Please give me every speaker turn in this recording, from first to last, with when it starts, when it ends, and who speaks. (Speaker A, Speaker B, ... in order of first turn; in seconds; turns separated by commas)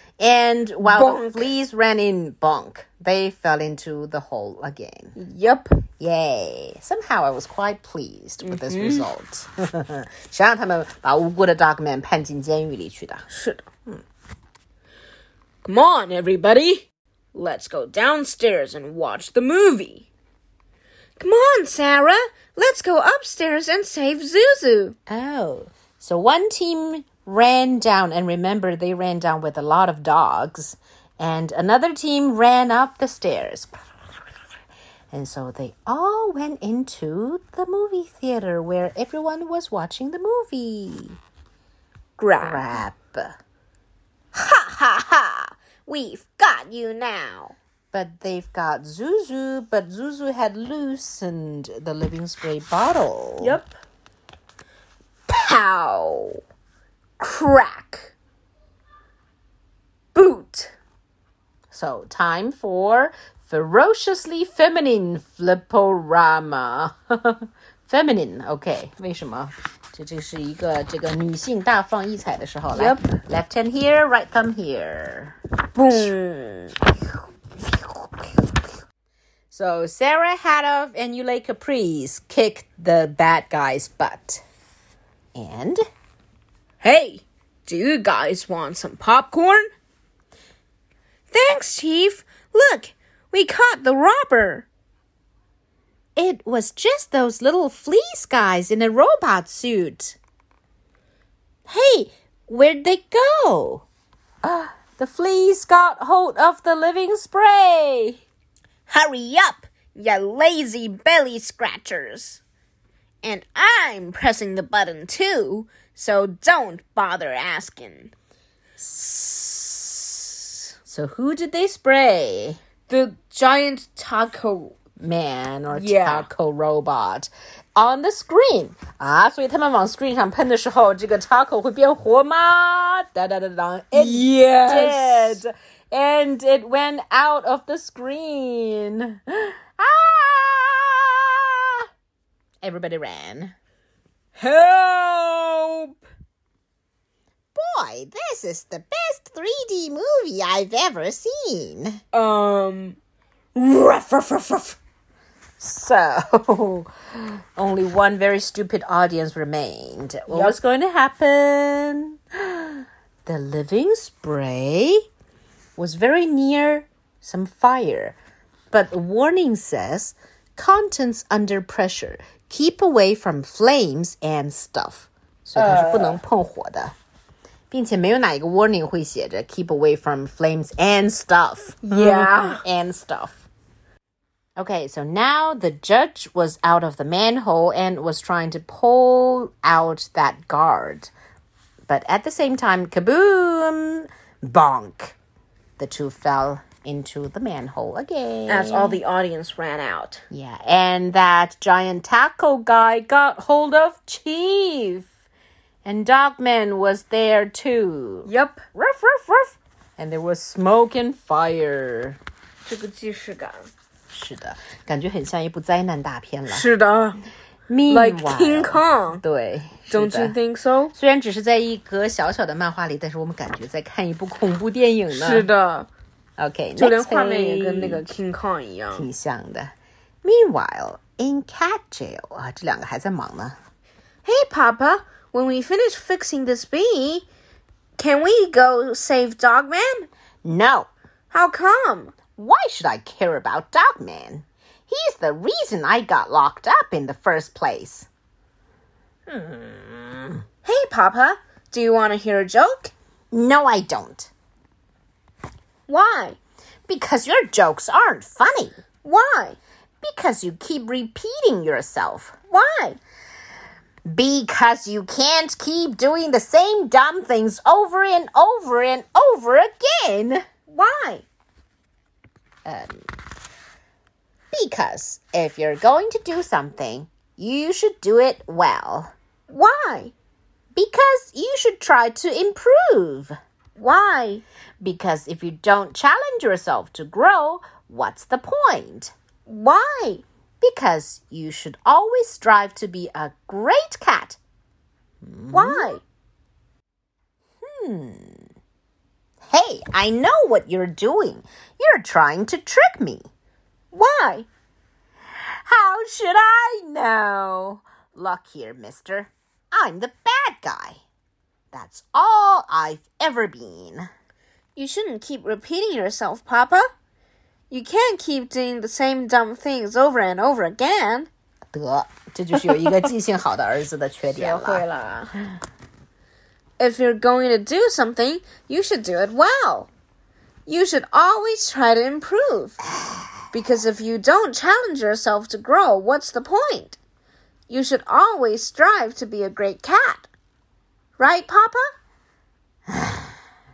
Speaker A: 0.2-5.1, Speaker B: 0.8-1.5, Speaker B: 5.1-5.8, Speaker A: 6.0-13.3, Speaker B: 8.4-9.1, Speaker B: 13.3-13.6, Speaker B: 15.6-20.1, Speaker B: 21.2-24.9, Speaker A: 25.1-33.8, Speaker A: 35.1-41.2, Speaker B: 42.2-42.8, Speaker A: 42.4-43.3, Speaker B: 44.3-47.5, Speaker A: 47.9-53.6, Speaker B: 53.4-53.7, Speaker B: 55.3-56.4, Speaker B: 57.2-58.1, Speaker B: 60.1-60.7, Speaker A: 61.7-75.3, Speaker B: 72.7-73.1, Speaker B: 75.7-76.8, Speaker A: 79.5-84.4, Speaker A: 85.3-85.8, Speaker B: 86.8-89.7, Speaker B: 91.3-94.7, Speaker A: 96.2-100.2, Speaker A: 101.7-103.8, Speaker A: 104.4-108.2, Speaker B: 108.9-112.4, Speaker B: 113.2-118.1, Speaker A: 118.8-120.1, Speaker A: 120.8-122.6, Speaker B: 122.9-124.7, Speaker A: 125.0-141.9, Speaker B: 125.7-126.3, Speaker B: 133.9-135.4, Speaker A: 142.6-143.5, Speaker B: 144.3-146.0, Speaker A: 147.5-152.0, Speaker B: 152.1-153.0, Speaker B: 153.5-154.8, Speaker A: 155.6-156.9, Speaker A: 157.6-165.0, Speaker B: 160.3-160.6, Speaker A: 165.8-168.2, Speaker A: 168.7-176.9, Speaker B: 175.6-176.2, Speaker A: 177.7-183.5, Speaker B: 181.8-182.6, Speaker A: 184.6-191.1, Speaker A: 191.9-195.2, Speaker A: 195.8-199.0, Speaker B: 198.5-200.2, Speaker A: 200.3-205.1, Speaker A: 205.8-212.2, Speaker B: 208.2-208.6, Speaker B: 212.7-213.7, Speaker A: 214.1-216.6, Speaker B: 216.5-217.2, Speaker A: 217.7-220.3, Speaker B: 217.9-219.2, Speaker B: 219.9-220.9, Speaker A: 220.9-225.5, Speaker B: 225.1-225.9, Speaker A: 226.4-228.0, Speaker B: 226.8-229.1, Speaker A: 228.9-233.6, Speaker B: 234.2-237.3, Speaker B: 238.0-240.1, Speaker A: 240.4-240.9, Speaker B: 241.3-242.2, Speaker A: 242.3-248.1, Speaker A: 249.3-250.3, Speaker B: 250.6-252.9, Speaker A: 253.3-254.3, Speaker B: 255.9-256.4, Speaker A: 256.9-258.8, Speaker B: 259.0-259.6, Speaker A: 260.0-262.3, Speaker B: 262.5-263.0, Speaker A: 264.1-270.4, Speaker B: 270.7-271.2, Speaker A: 272.6-273.1, Speaker A: 274.5-279.1, Speaker B: 279.5-280.1, Speaker A: 280.7-283.4, Speaker B: 283.8-284.4, Speaker A: 284.8-289.1, Speaker B: 289.5-290.2, Speaker A: 290.6-294.4, Speaker A: 295.2-296.0, Speaker B: 295.5-296.0, Speaker A: 297.6-298.5, Speaker A: 299.5-303.3, Speaker B: 303.9-304.5, Speaker A: 305.6-311.0, Speaker A: 311.7-314.1, Speaker B: 314.8-316.9, Speaker B: 317.7-321.3, Speaker A: 321.7-324.8, Speaker B: 324.4-325.3, Speaker B: 326.8-329.9, Speaker B: 330.6-332.8, Speaker B: 333.5-337.0, Speaker B: 337.7-340.3, Speaker B: 341.2-341.9, Speaker A: 342.9-343.3